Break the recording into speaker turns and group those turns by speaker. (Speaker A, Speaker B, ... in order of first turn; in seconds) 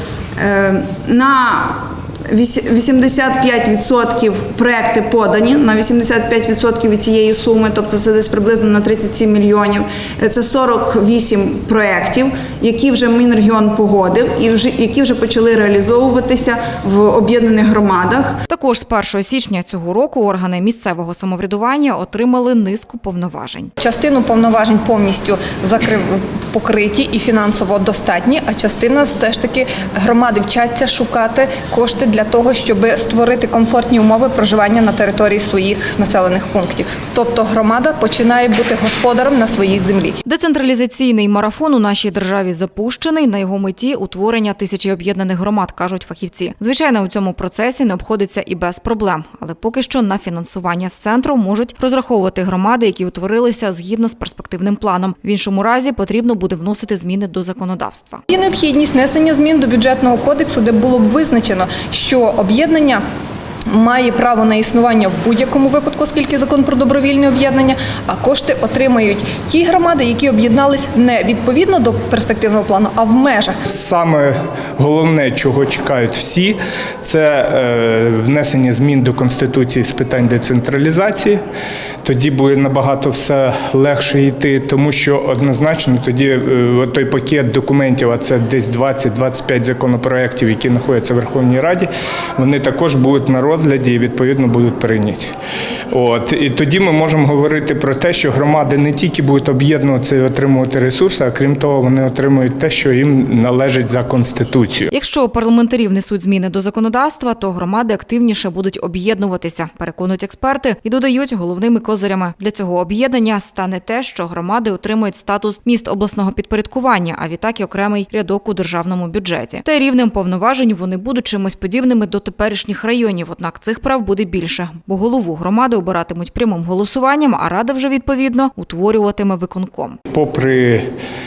Speaker A: 0.4-18.4
Speaker B: 18.5-23.7, 40.2-58.2, 104.9-130.0
Speaker C: 23.8-40.2, 58.3-63.0, 63.7-73.6
Speaker D: 73.7-81.4, 82.0-95.3, 95.9-104.9, 130.1-130.9